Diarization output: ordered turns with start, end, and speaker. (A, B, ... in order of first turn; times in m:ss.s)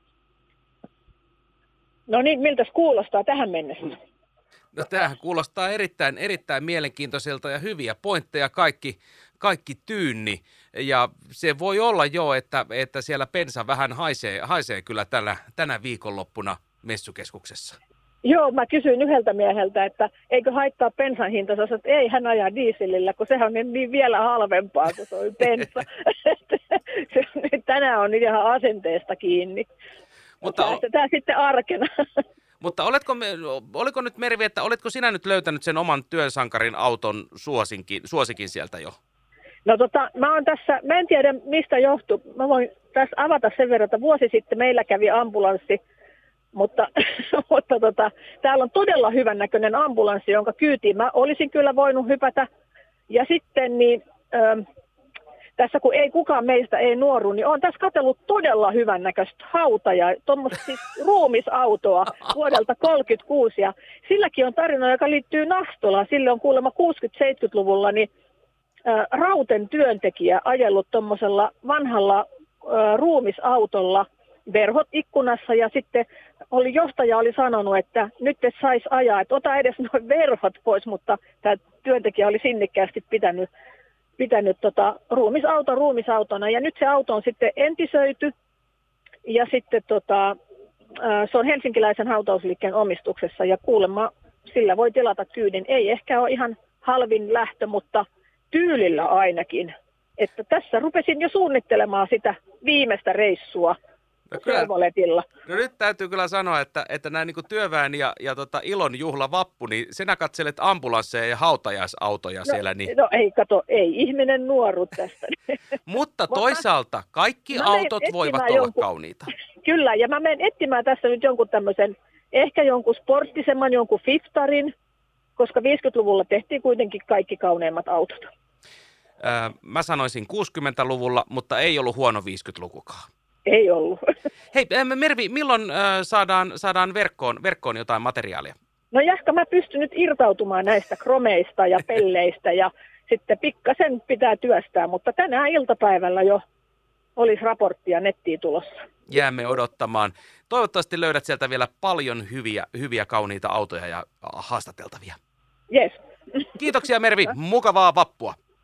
0:02.1-0:04.0 A
0:04.7-0:17.8 B
0:18.2-0:29.6 A
0:30.4-0:30.8 B
0:30.4-0:32.2 A
0:32.6-0:38.9 B
0:39.6-0:45.8 A
0:46.5-0:52.5 A
0:53.1-0:54.6 A
0:55.6-1:08.1 A
1:08.8-1:23.5 A
1:24.2-1:28.3 A
1:29.2-1:30.4 A
1:30.9-1:43.8 A
1:44.3-1:44.7 B
1:44.3-1:45.2 A
1:45.4-1:52.9 B
1:52.9-1:55.4 A
1:55.8-1:59.3 B
1:57.5-1:58.8 A
1:59.6-2:04.7 A
2:05.4-2:08.3 A
2:09.2-2:13.0 B
2:13.4-2:14.1 A
2:14.5-2:18.5 B
2:18.9-2:26.4 A
2:27.2-2:28.8 A
2:29.1-2:35.2 B
2:35.7-2:36.0 A
2:36.6-2:38.4 B